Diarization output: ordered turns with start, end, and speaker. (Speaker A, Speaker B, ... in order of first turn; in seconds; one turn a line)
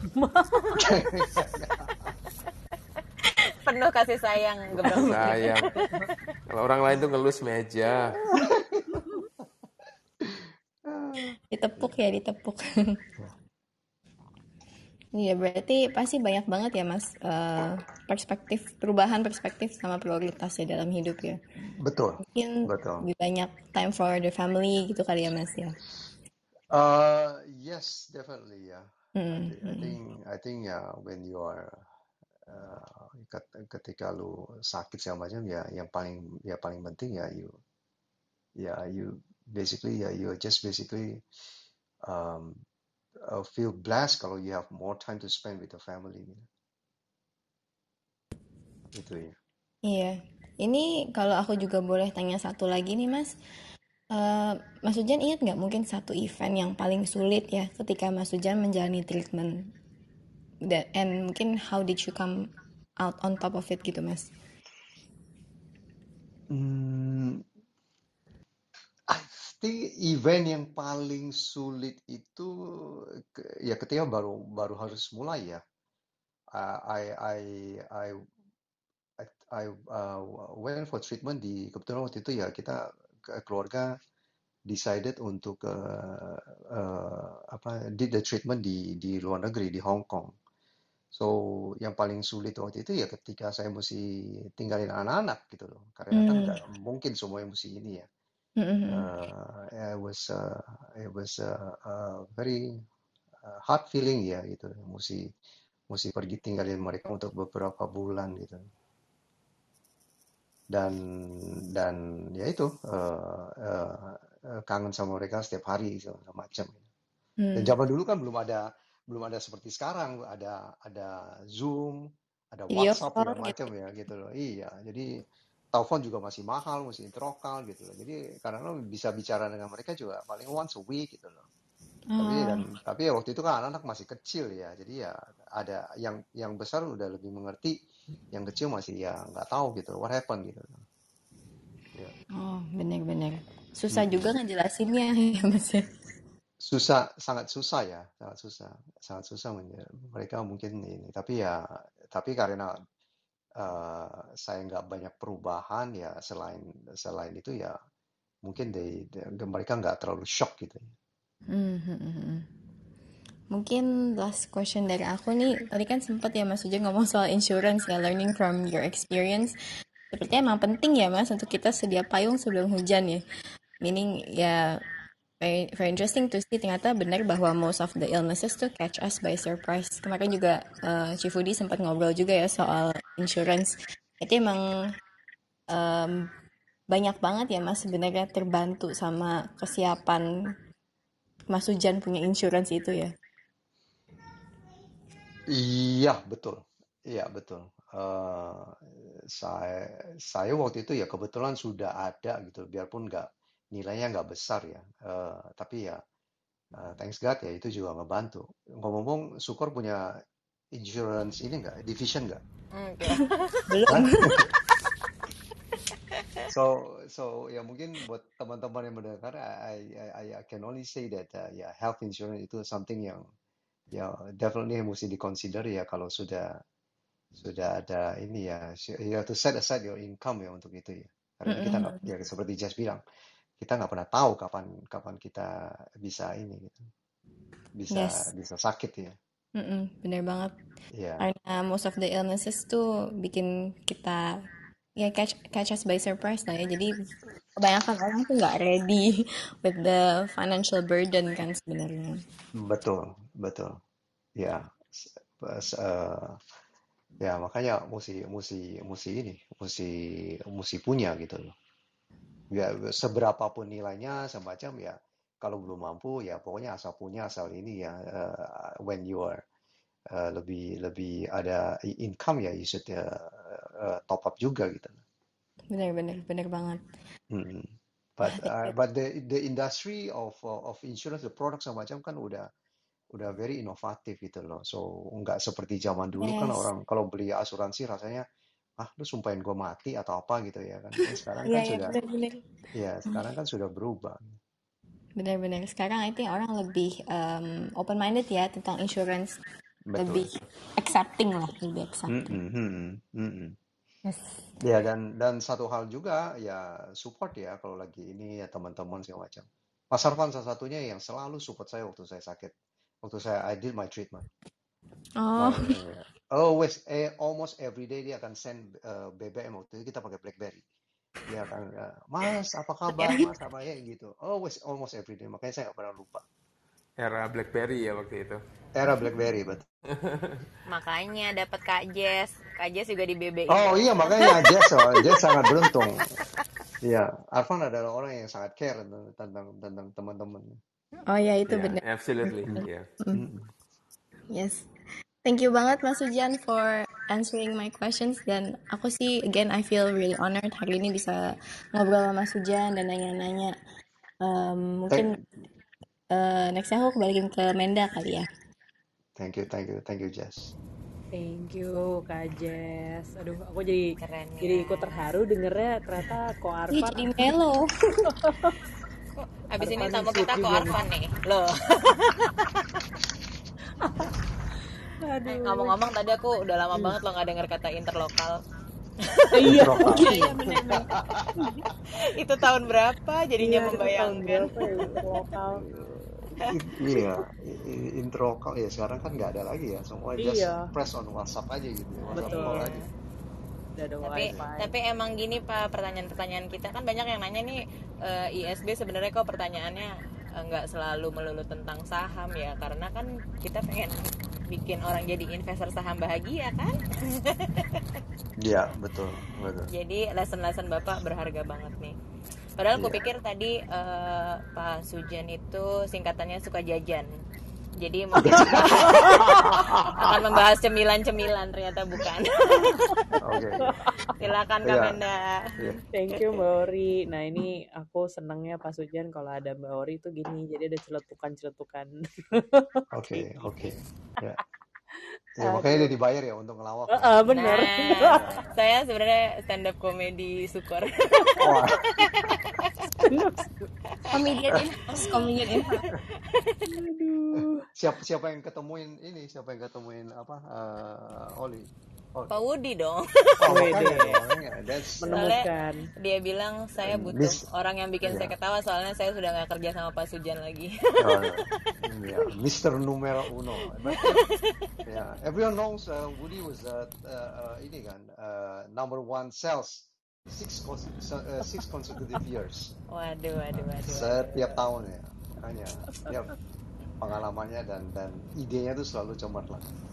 Speaker A: 0.1-0.9
Speaker B: 0.8-1.9
Speaker C: 3.2-6.1
Speaker A: 4.8-6.0
Speaker D: 5.0-5.7
Speaker D: 6.5-8.2
Speaker B: 8.3-9.0
Speaker B: 10.2-11.9
Speaker E: 11.5-13.0
Speaker E: 15.2-21.4
Speaker B: 21.8-23.1
Speaker E: 22.2-25.8
Speaker B: 26.7-31.8
Speaker E: 29.1-29.9
Speaker B: 32.5-37.6
Speaker B: 38.6-41.2
Speaker B: 42.0-42.6
Speaker B: 43.2-46.5
Speaker B: 48.9-49.4
Speaker E: 49.8-53.4
Speaker E: 54.1-59.7
Speaker E: 60.7-62.5
Speaker E: 63.0-64.3
Speaker B: 66.5-67.4
Speaker B: 69.1-75.6
Speaker B: 76.5-78.2
Speaker B: 79.2-83.9
Speaker B: 84.7-90.3
Speaker B: 91.1-98.1
Speaker E: 96.1-96.5
Speaker E: 98.6-99.1
Speaker B: 98.9-102.7
Speaker B: 103.4-105.3
Speaker B: 105.9-108.7
Speaker B: 110.7-116.8
Speaker E: 117.4-117.8
Speaker B: 117.5-131.4
Speaker E: 122.7-123.6
Speaker E: 132.1-132.6
Speaker B: 132.2-137.8
Speaker B: 138.3-140.8
Speaker E: 142.3-145.9
Speaker B: 143.9-144.2
Speaker B: 146.6-152.8
Speaker B: 153.6-157.8
Speaker B: 158.4-160.9
Speaker E: 161.5-162.5
Speaker E: 163.5-169.6
Speaker E: 170.1-173.2
Speaker E: 173.8-174.8
Speaker E: 175.4-184.7
Speaker E: 185.7-186.3
Speaker E: 186.9-190.3
Speaker E: 191.5-193.1
Speaker B: 195.5-206.0
Speaker B: 206.8-210.1
Speaker B: 210.7-212.4
Speaker C: 212.7-213.7
Speaker E: 213.7-214.4
Speaker B: 213.9-214.5
Speaker B: 216.5-223.2
Speaker B: 223.9-226.6
Speaker B: 227.4-233.0
Speaker E: 231.5-232.0
Speaker B: 233.6-236.9
Speaker B: 237.7-239.2
Speaker E: 237.9-238.3
Speaker E: 239.6-240.5
Speaker B: 240.9-241.3
Speaker E: 241.2-244.3
Speaker E: 245.0-246.9
Speaker E: 247.6-252.2
Speaker B: 252.6-253.8
Speaker B: 254.4-256.4
Speaker B: 257.2-261.5
Speaker B: 262.5-269.4
Speaker B: 270.1-275.0
Speaker E: 275.7-276.8
Speaker B: 277.3-282.5
Speaker E: 278.3-278.7
Speaker B: 283.1-288.2
Speaker E: 286.2-286.7
Speaker B: 288.8-291.9
Speaker E: 291.4-292.4
Speaker B: 292.7-294.4
Speaker E: 295.2-299.4
Speaker B: 299.9-300.3
Speaker E: 299.9-302.3
Speaker B: 302.1-303.6
Speaker E: 304.1-304.4
Speaker B: 304.6-314.2
Speaker E: 315.2-315.7
Speaker B: 315.4-320.6
Speaker B: 321.2-326.2
Speaker E: 323.0-323.3
Speaker D: 327.0-328.4
Speaker B: 328.7-329.6
Speaker E: 328.9-329.3
Speaker D: 329.9-330.4
Speaker C: 330.7-335.8
Speaker B: 333.5-336.1
Speaker B: 336.8-340.6
Speaker E: 341.1-343.2
Speaker D: 341.5-342.9
Speaker B: 342.5-343.5
Speaker E: 344.3-344.7
Speaker E: 345.2-353.6
Speaker E: 354.2-355.2
Speaker B: 354.9-355.2
Speaker E: 356.1-358.3
Speaker B: 359.2-360.5
Speaker A: 361.1-367.3
Speaker C: 364.0-365.0
Speaker E: 366.7-368.1
Speaker A: 368.2-368.6
Speaker C: 369.5-372.5
Speaker A: 369.6-370.8
Speaker A: 375.1-375.7
Speaker C: 375.2-378.4
Speaker C: 379.0-380.4
Speaker A: 379.3-381.5
Speaker B: 379.5-381.7
Speaker C: 382.0-384.5
Speaker A: 383.4-385.6
Speaker B: 385.6-392.8
Speaker C: 386.4-387.1
Speaker A: 390.2-390.7
Speaker A: 392.1-392.8
Speaker C: 392.1-392.7
Speaker A: 393.8-394.7
Speaker C: 394.0-407.8
Speaker B: 408.4-409.7
Speaker C: 409.7-411.9
Speaker C: 412.6-417.1
Speaker B: 412.8-413.0
Speaker C: 417.8-423.1
Speaker B: 418.1-420.4
Speaker A: 418.5-419.3
Speaker A: 422.6-422.9
Speaker B: 423.2-423.8
Speaker A: 423.7-424.1
Speaker C: 424.1-425.8
Speaker B: 424.6-425.0
Speaker A: 425.9-433.7
Speaker B: 432.9-434.4
Speaker B: 435.4-438.4
Speaker A: 435.4-435.9
Speaker A: 436.9-438.3
Speaker C: 437.3-442.7
Speaker B: 441.4-442.3
Speaker A: 443.0-443.7
Speaker C: 444.0-446.6
Speaker E: 444.1-445.8
Speaker A: 446.6-447.6
Speaker B: 447.4-452.3
Speaker C: 452.3-453.6
Speaker B: 453.4-455.1
Speaker A: 453.4-454.2
Speaker A: 455.0-455.8
Speaker C: 455.0-461.7
Speaker B: 456.8-457.4
Speaker B: 458.0-458.3
Speaker B: 461.0-464.2
Speaker C: 463.8-465.0
Speaker B: 464.9-472.7
Speaker C: 472.9-474.6
Speaker B: 473.8-476.3
Speaker B: 477.0-479.6